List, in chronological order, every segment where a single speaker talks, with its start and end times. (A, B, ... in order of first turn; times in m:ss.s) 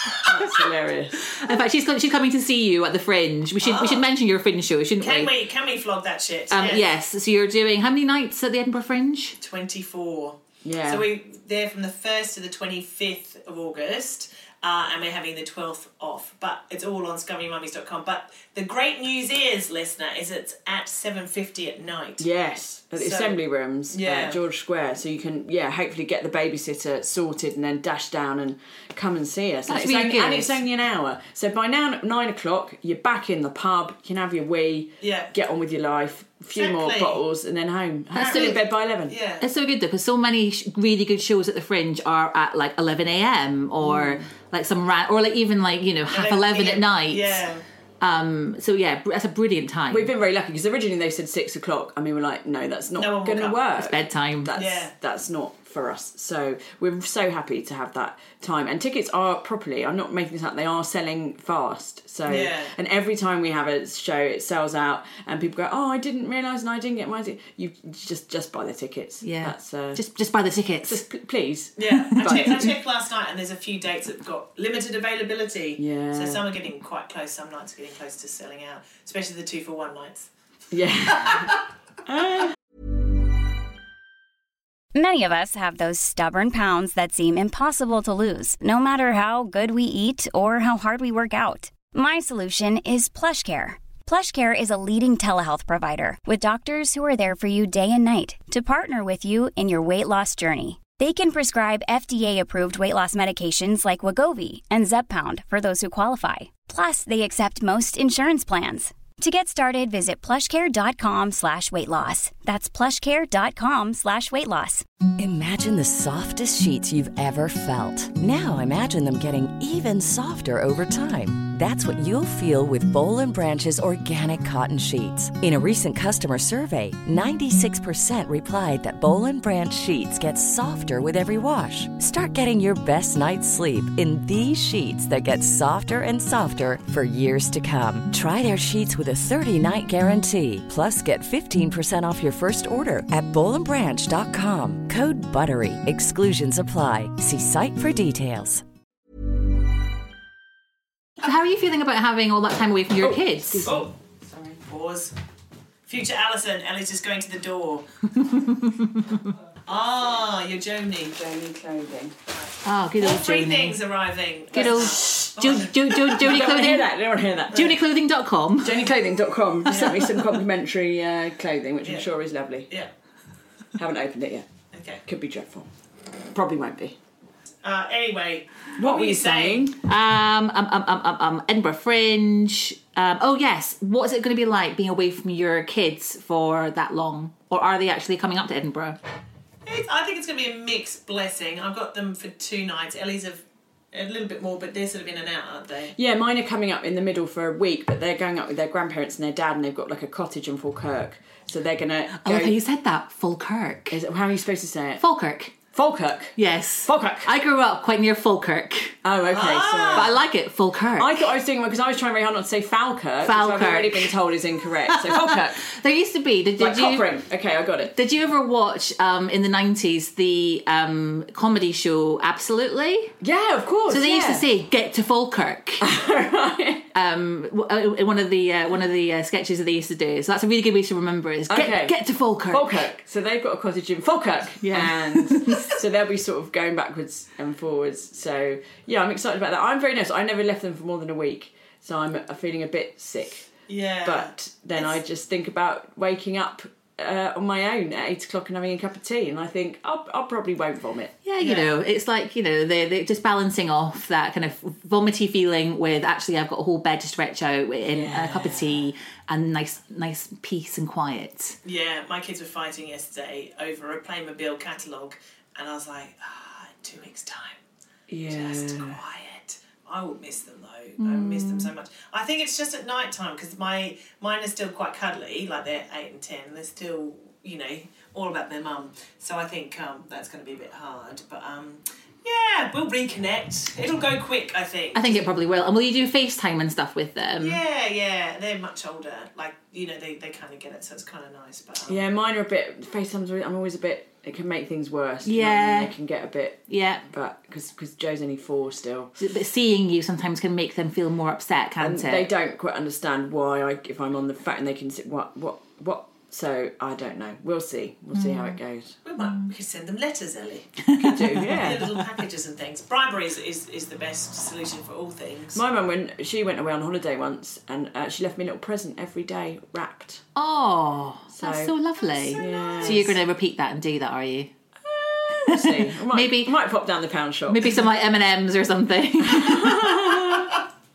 0:00.2-0:01.2 A
0:01.2-0:05.3 B
0:03.6-0:04.0 C
0:05.0-0:06.8 C
0:06.5-0:09.4 B
0:09.4-0:22.2 C
0:10.6-0:11.0 A
0:22.2-0:39.1 A
0:23.0-0:24.4 C
0:29.7-0:30.6 B
0:35.0-0:35.3 C
0:36.5-0:37.2 C
0:38.2-0:39.4 C
0:38.2-0:38.5 B
0:39.4-0:47.4 B
0:43.8-0:44.3 A
0:46.1-0:47.6 C
0:48.0-0:50.1 B
0:49.9-1:10.0 A
0:53.0-0:53.6 C
0:53.8-0:54.5 B
0:54.6-0:54.9 C
1:02.2-1:02.7 C
1:09.2-1:11.0 B
1:10.8-1:12.7 A
1:11.8-1:20.3 C
1:12.1-1:12.7 B
1:15.8-1:16.4 A
1:20.7-1:21.5 A
1:21.1-1:21.6 C
1:22.0-1:22.5 A
1:24.9-1:54.8 D
1:55.2-2:28.6 E
2:31.2-2:33.7 B
2:33.0-2:34.6 A
2:34.6-2:35.1 C
2:35.9-2:37.8 C
2:38.2-2:39.3 B
2:39.7-2:41.2 C
2:41.0-2:42.2 A
2:42.3-2:46.2 C
2:42.6-2:43.8 B
2:44.5-2:46.9 B
2:44.6-2:47.7 A
2:47.5-2:48.8 B
2:48.6-2:52.7 A
2:49.6-2:50.3 C
2:51.8-2:52.1 C
2:53.8-2:54.5 A
2:54.7-2:55.0 C
2:55.0-2:55.7 A
2:56.3-2:57.0 A
2:57.6-2:59.7 C
2:58.8-2:59.8 A
2:59.8-3:09.0 B
3:09.6-3:15.9 C
3:15.9-3:22.6 A
3:22.2-3:24.0 B
3:23.9-3:25.0 A
3:25.0-3:25.5 B
3:25.7-3:27.3 A
3:26.4-3:29.0 B
3:29.0-3:30.1 A
3:29.3-3:30.1 C
3:29.9-3:31.1 B
3:31.0-3:35.6 A
3:33.2-3:34.1 B
3:34.9-3:37.1 B
3:36.6-3:37.9 A
3:38.0-3:43.1 B
3:43.2-3:44.4 A
3:43.9-3:45.8 B
3:45.8-3:46.9 A
3:46.9-3:52.9 B
3:51.5-4:03.5 A
3:54.6-3:55.7 B
4:03.7-4:05.0 C
4:04.0-4:11.2 A
4:11.2-4:21.6 B
4:11.4-4:11.7 C
4:17.8-4:18.9 A
4:21.6-4:27.6 C
4:28.1-4:29.0 A
4:28.3-4:45.3 C
4:31.0-4:31.7 B
4:44.9-4:47.6 B
4:47.4-4:52.0 C
4:51.9-4:59.1 A
4:55.2-4:55.9 B
4:56.7-4:57.0 B
4:59.2-5:02.3 B
5:01.8-5:09.0 A
5:08.1-5:08.6 B
5:09.0-5:11.0 C
5:09.2-5:09.5 B
5:10.9-5:11.7 B
5:11.0-5:11.9 A
5:11.6-5:15.6 C
5:15.5-5:20.2 A
5:20.4-5:24.5 B
5:21.3-5:21.7 A
5:22.0-5:23.2 C
5:22.3-5:23.2 A
5:24.8-5:27.9 A
5:25.5-5:26.5 B
5:27.5-5:30.1 B
5:29.2-5:30.5 A